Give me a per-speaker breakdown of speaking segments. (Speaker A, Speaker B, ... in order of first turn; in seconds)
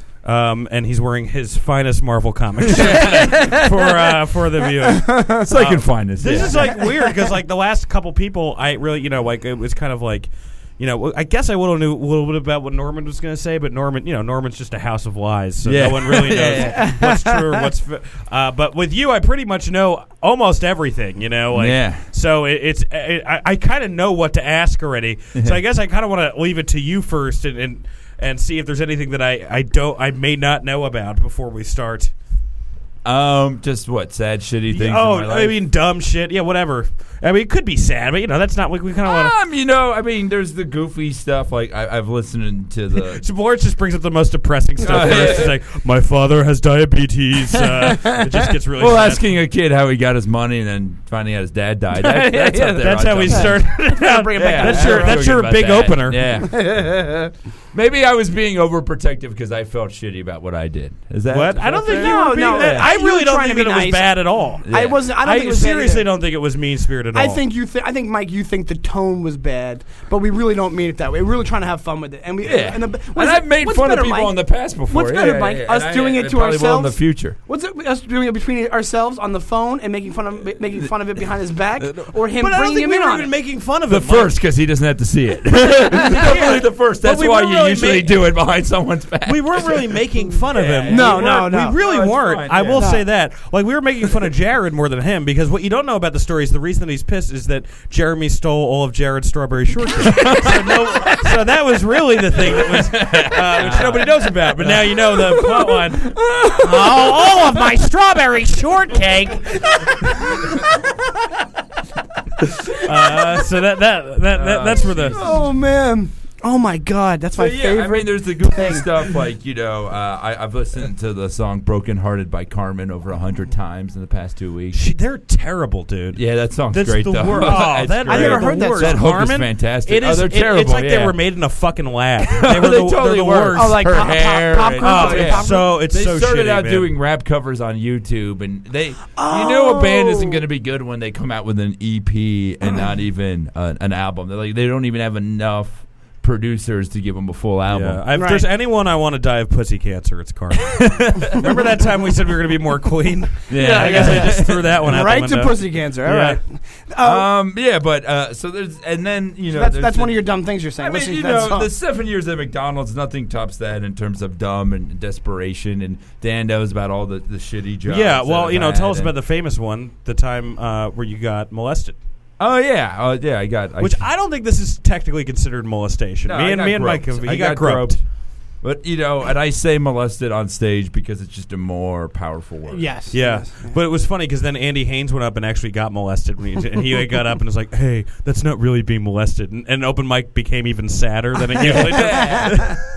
Speaker A: 0.2-32.1, 34.7-39.4, 43.0-49.4, 52.3-56.3, 61.3-67.4, 82.2-84.3, 86.1-88.3, 89.2-109.9, 112.7-115.2, 124.7-134.1, 134.8-136.9, 147.7-156.4, 167.9-172.0, 173.8-178.0, 183.1-192.8
Speaker B: 2.7-3.4, 5.4-6.8, 15.6-16.9, 21.5-22.1, 33.0-35.6, 39.0-43.2, 44.8-45.6, 48.8-53.6, 54.4-57.0, 57.7-62.9, 64.7-65.0, 72.4-77.4, 83.9-90.0, 90.5-92.9, 100.0-101.4, 102.3-107.0, 112.6-112.9, 114.3-115.4, 117.3-124.8, 126.1-131.2, 132.4-148.0, 150.9-151.4, 153.5-154.8, 157.0-160.2, 160.8-169.1, 172.4-174.1, 176.2-178.0, 178.6-182.8, 191.6-192.8
Speaker C: 3.1-3.6, 4.9-5.5, 16.6-17.2, 53.3-55.4, 56.4-57.3, 61.9-66.1, 67.1-83.3, 90.9-91.8, 92.8-93.1, 115.1-119.1, 127.4-129.0, 133.5-135.8, 139.2-140.4, 148.1-148.5, 153.5-157.3, 159.5-161.7, 182.7-183.8